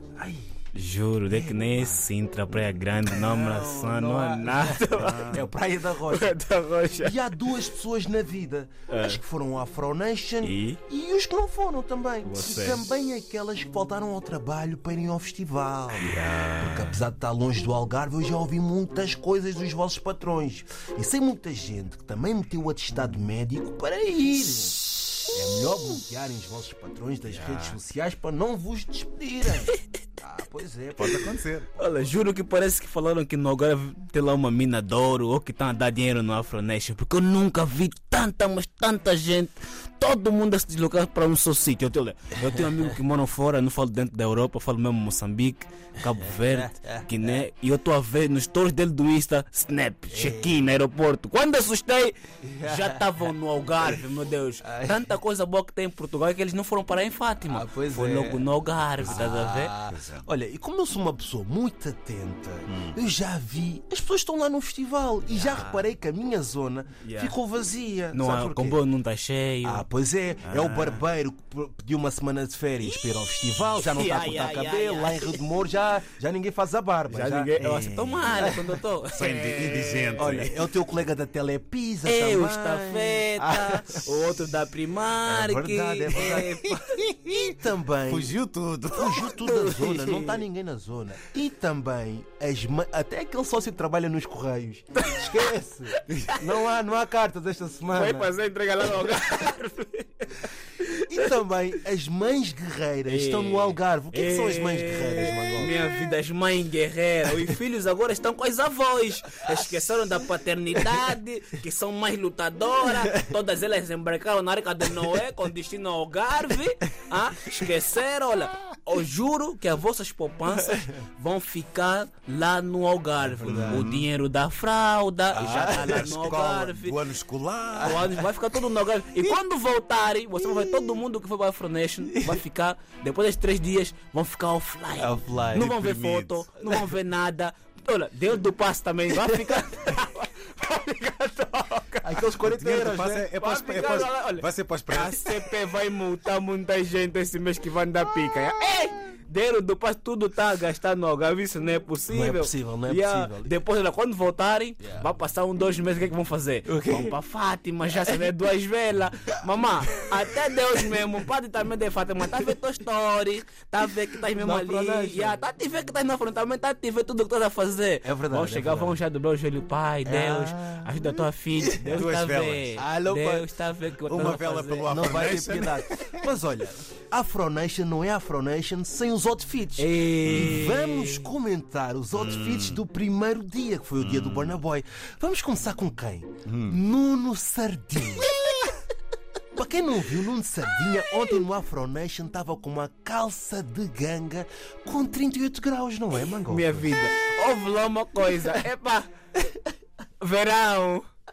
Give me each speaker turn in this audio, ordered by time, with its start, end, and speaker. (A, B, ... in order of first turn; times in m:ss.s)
0:00.2-0:00.5 A
0:00.7-0:05.4 B
0:01.3-0:02.1 A
0:03.1-0:06.3 A
0:04.9-0:05.4 C
0:06.1-0:07.3 B
0:07.0-0:32.1 A
0:08.9-0:09.2 B
0:10.4-0:10.8 B
0:12.2-0:12.8 B
0:16.0-0:16.9 B
0:27.3-0:27.8 C
0:31.0-0:31.7 C
0:31.8-0:59.7 B
0:46.1-0:47.4 A
0:50.1-0:50.7 A
0:52.4-0:53.3 A
0:54.6-0:55.0 A
0:57.4-0:58.5 A
0:59.0-1:08.8 A
0:59.0-0:59.3 C
0:59.8-1:00.2 C
1:02.7-1:03.0 C
1:05.3-1:05.9 B
1:07.0-1:07.3 B
1:08.1-1:09.8 B
1:09.6-1:18.8 A
1:10.4-1:11.0 C
1:13.8-1:15.4 B
1:17.1-1:20.4 B
1:19.1-1:20.6 C
1:20.2-1:24.1 A
1:22.0-1:27.0 B
1:25.2-1:26.7 A
1:27.3-1:28.3 A
1:28.1-1:29.3 C
1:28.9-1:38.3 A
1:29.4-1:30.4 B
1:34.9-1:36.5 B
1:37.9-1:41.3 B
1:41.1-1:45.7 A
1:43.1-2:07.0 B
1:49.4-1:49.8 A
1:52.9-1:53.2 A
2:00.5-2:00.9 A
2:03.2-2:03.8 A
2:03.4-2:04.1 C
2:05.3-2:06.2 A
2:05.4-2:08.2 C
2:07.7-2:08.2 A
2:07.8-2:22.3 B
2:10.5-2:11.0 A
2:12.0-2:12.4 A
2:15.0-2:15.7 A
2:15.4-2:16.5 C
2:16.6-2:16.9 A
2:19.1-2:19.6 A
2:22.0-2:23.3 A
2:22.3-2:25.4 C
2:23.3-2:54.9 B
2:32.1-2:33.5 A
2:36.7-2:37.2 A
2:37.9-2:38.3 A
2:44.3-2:45.4 A
2:48.0-2:49.0 A
2:50.0-2:52.0 A
2:51.9-2:52.8 C
2:52.8-2:53.4 A
2:54.0-2:56.2 C
2:54.8-3:08.3 A
2:59.8-3:01.3 B
3:00.2-3:00.6 C
3:02.1-3:02.8 C
3:04.0-3:04.6 C
3:06.4-3:06.8 C
3:09.5-3:16.9 A
3:16.4-3:19.1 B
3:20.2-3:21.0 B